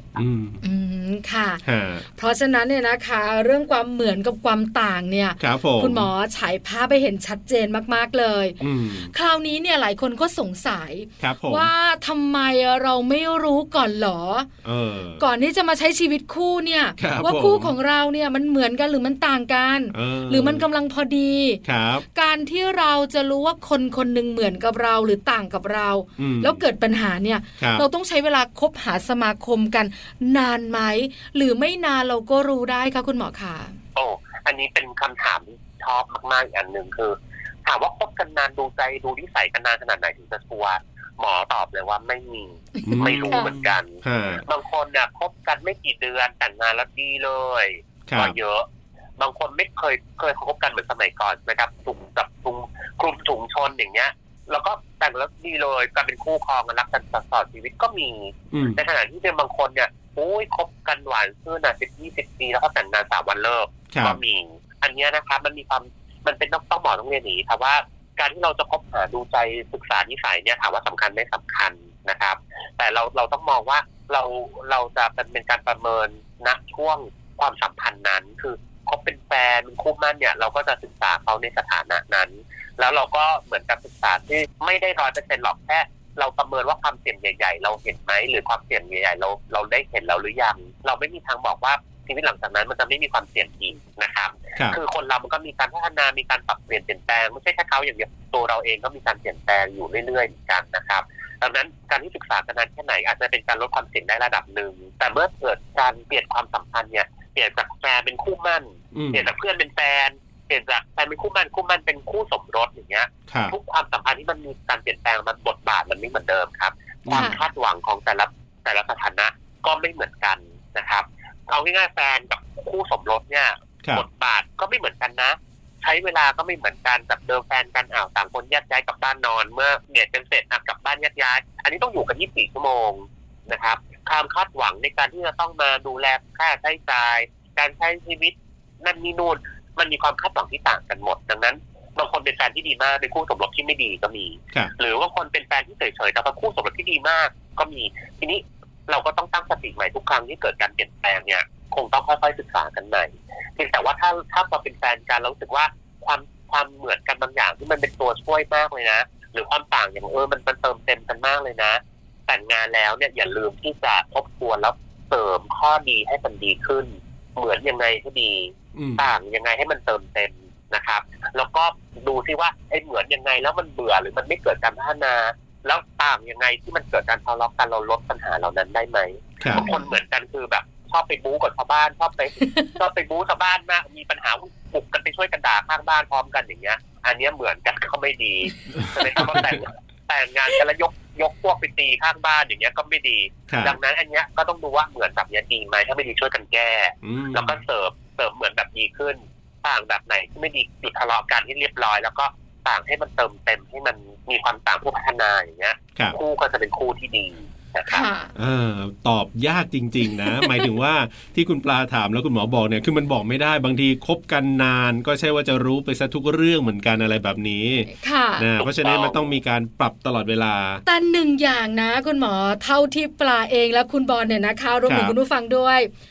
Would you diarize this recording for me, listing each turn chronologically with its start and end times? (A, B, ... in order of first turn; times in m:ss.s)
0:00.2-0:00.6 A
0:00.6-0:01.6 B
0:01.6-0:02.0 A
0:02.2-0:08.6 B
0:05.4-0:06.1 A
0:08.6-0:09.1 A
0:09.1-0:14.5 B
0:11.2-0:11.7 A
0:14.6-0:15.2 A
0:15.2-0:21.6 B
0:17.0-0:17.7 A
0:19.9-0:20.6 A
0:21.6-0:22.0 A
0:22.2-0:33.7 B
0:26.2-0:26.6 A
0:27.6-0:27.8 A
0:34.0-0:48.7 C
0:42.8-0:43.5 B
0:42.8-0:44.4 A
0:48.1-0:48.4 A
0:49.2-3:28.1 C
0:58.5-0:58.8 A
1:03.9-1:04.2 A
1:48.9-1:49.3 A
1:53.3-1:53.6 A
1:57.0-1:57.4 A
1:57.1-1:57.4 B
2:48.8-2:49.1 A
2:59.4-2:59.7 A
2:59.6-3:00.0 B
3:02.4-3:02.7 B
3:08.8-3:09.6 A
3:13.5-3:13.8 A
3:17.0-3:17.6 A
3:27.9-3:28.3 B
3:28.4-3:40.8 A
3:30.2-3:30.6 B
3:38.0-3:38.5 B
3:38.6-3:39.2 C
3:40.8-3:45.9 B
3:44.9-3:45.2 A